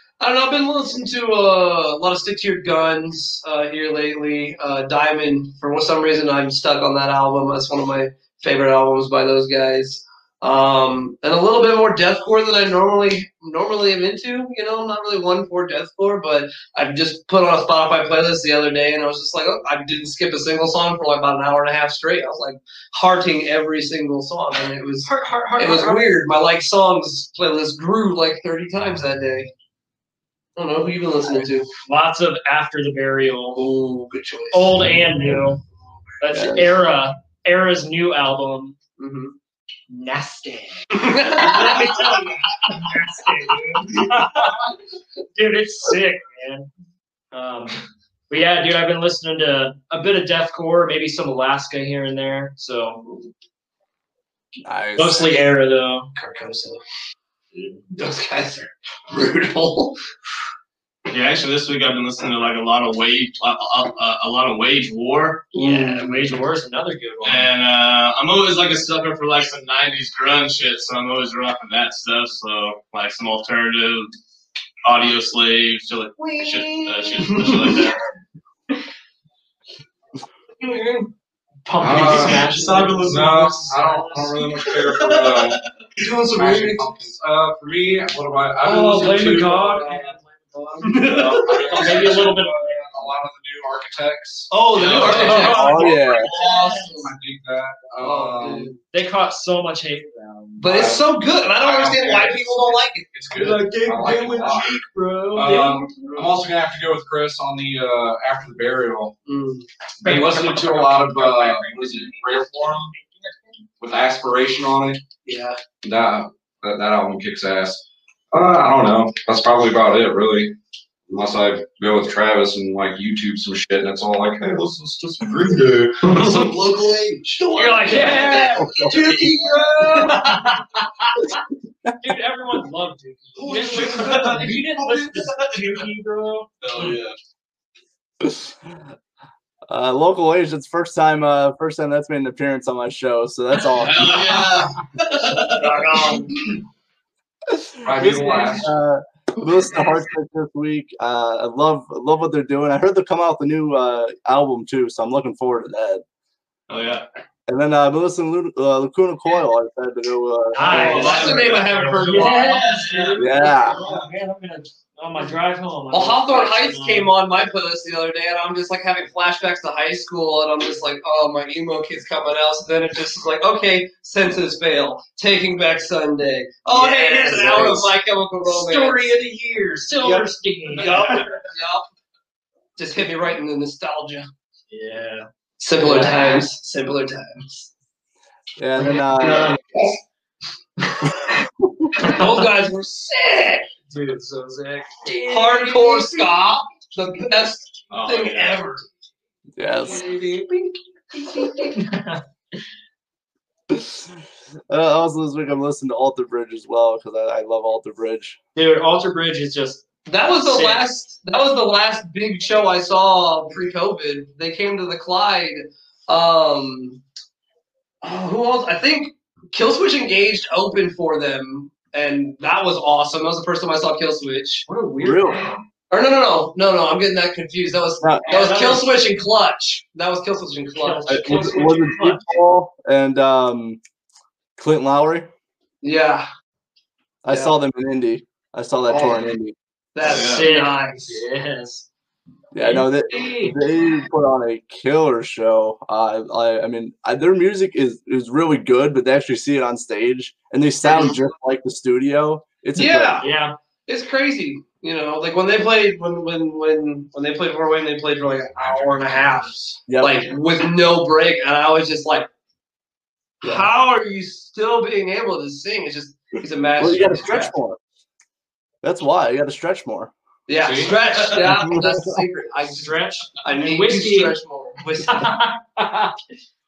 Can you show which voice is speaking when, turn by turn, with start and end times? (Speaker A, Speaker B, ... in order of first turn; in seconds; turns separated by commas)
Speaker A: 0.2-29.5, Speaker B: 25.1-26.1, Speaker A: 30.6-31.7, Speaker B: 31.9-33.6, Speaker A: 33.5-34.9, Speaker B: 34.5-35.6, Speaker B: 36.2-38.8, Speaker C: 36.3-36.7, Speaker A: 39.0-39.3, Speaker B: 39.9-44.6, Speaker A: 41.0-42.2, Speaker B: 45.3-46.7, Speaker B: 47.3-53.0, Speaker C: 54.6-55.4, Speaker B: 55.0-56.1, Speaker A: 56.1-56.8, Speaker A: 58.0-60.0, Speaker D: 61.1-65.5, Speaker A: 65.5-66.3, Speaker B: 65.5-67.5, Speaker D: 67.2-74.1, Speaker D: 74.8-78.0, Speaker A: 76.2-77.8, Speaker A: 80.6-81.1, Speaker B: 81.7-84.3, Speaker E: 81.8-85.6, Speaker D: 82.0-83.8, Speaker D: 84.6-85.7, Speaker A: 86.0-86.9, Speaker E: 86.3-89.8, Speaker B: 88.6-91.0, Speaker A: 89.8-90.0, Speaker A: 90.8-92.1, Speaker E: 91.0-98.7, Speaker B: 91.7-92.8, Speaker A: 94.5-97.1, Speaker D: 94.7-95.6, Speaker B: 95.0-96.5, Speaker C: 95.4-96.3, Speaker A: 98.0-98.8, Speaker B: 98.9-100.7, Speaker A: 100.6-103.2, Speaker E: 100.7-101.1, Speaker E: 101.6-102.4, Speaker E: 103.1-104.8, Speaker B: 104.0-106.2, Speaker E: 105.3-109.2, Speaker A: 109.3-109.7, Speaker E: 110.0-112.9, Speaker B: 110.0-112.4, Speaker E: 113.8-115.0, Speaker A: 115.2-115.6, Speaker E: 115.8-120.5, Speaker E: 121.1-126.4, Speaker A: 126.0-130.3, Speaker D: 126.1-127.0, Speaker B: 127.6-128.9, Speaker C: 128.5-129.0, Speaker D: 129.1-130.4, Speaker B: 132.0-136.5, Speaker D: 133.4-135.7, Speaker A: 133.8-134.2, Speaker D: 136.6-137.2, Speaker C: 138.2-138.8, Speaker C: 139.7-144.4, Speaker D: 143.7-145.8, Speaker B: 145.6-146.4, Speaker C: 147.5-156.0, Speaker E: 147.8-148.7, Speaker D: 156.7-157.1, Speaker C: 157.5-161.5, Speaker B: 160.5-167.1, Speaker A: 160.6-162.7, Speaker D: 161.9-163.2, Speaker C: 163.2-163.8, Speaker D: 163.8-164.1, Speaker A: 165.9-179.1, Speaker B: 176.7-177.9, Speaker B: 178.5-181.4, Speaker A: 180.0-181.8, Speaker A: 182.8-184.3, Speaker B: 184.7-185.3, Speaker A: 185.6-187.7, Speaker B: 185.8-186.5, Speaker C: 188.6-189.6, Speaker B: 189.2-189.6, Speaker A: 192.0-193.7, Speaker B: 192.0-192.3, Speaker B: 193.9-196.3, Speaker A: 195.2-198.8, Speaker E: 197.9-198.4, Speaker C: 199.6-200.1, Speaker A: 199.9-201.8, Speaker B: 201.8-202.2, Speaker C: 203.7-204.2, Speaker C: 204.7-208.4, Speaker B: 208.6-210.9, Speaker A: 210.1-217.0, Speaker A: 218.0-224.7, Speaker B: 224.7-225.6, Speaker C: 225.0-225.4, Speaker A: 225.9-231.4, Speaker C: 228.0-228.3, Speaker B: 228.3-228.9, Speaker B: 230.8-232.3, Speaker C: 231.1-233.8, Speaker C: 234.6-235.3, Speaker A: 235.8-236.3, Speaker C: 237.2-239.6, Speaker A: 237.3-237.5, Speaker A: 238.9-239.2, Speaker A: 239.9-241.2, Speaker D: 240.0-240.5, Speaker B: 240.0-241.9, Speaker C: 242.5-253.2, Speaker B: 242.6-243.6, Speaker A: 250.9-251.2, Speaker A: 252.8-253.3, Speaker B: 253.2-253.5, Speaker A: 253.9-262.3, Speaker E: 258.6-259.1, Speaker C: 259.9-260.2, Speaker A: 263.4-267.5, Speaker C: 266.8-267.8, Speaker C: 268.8-270.1, Speaker A: 270.5-275.3, Speaker E: 270.6-271.4, Speaker C: 271.4-272.2, Speaker B: 272.7-274.4, Speaker B: 275.1-276.1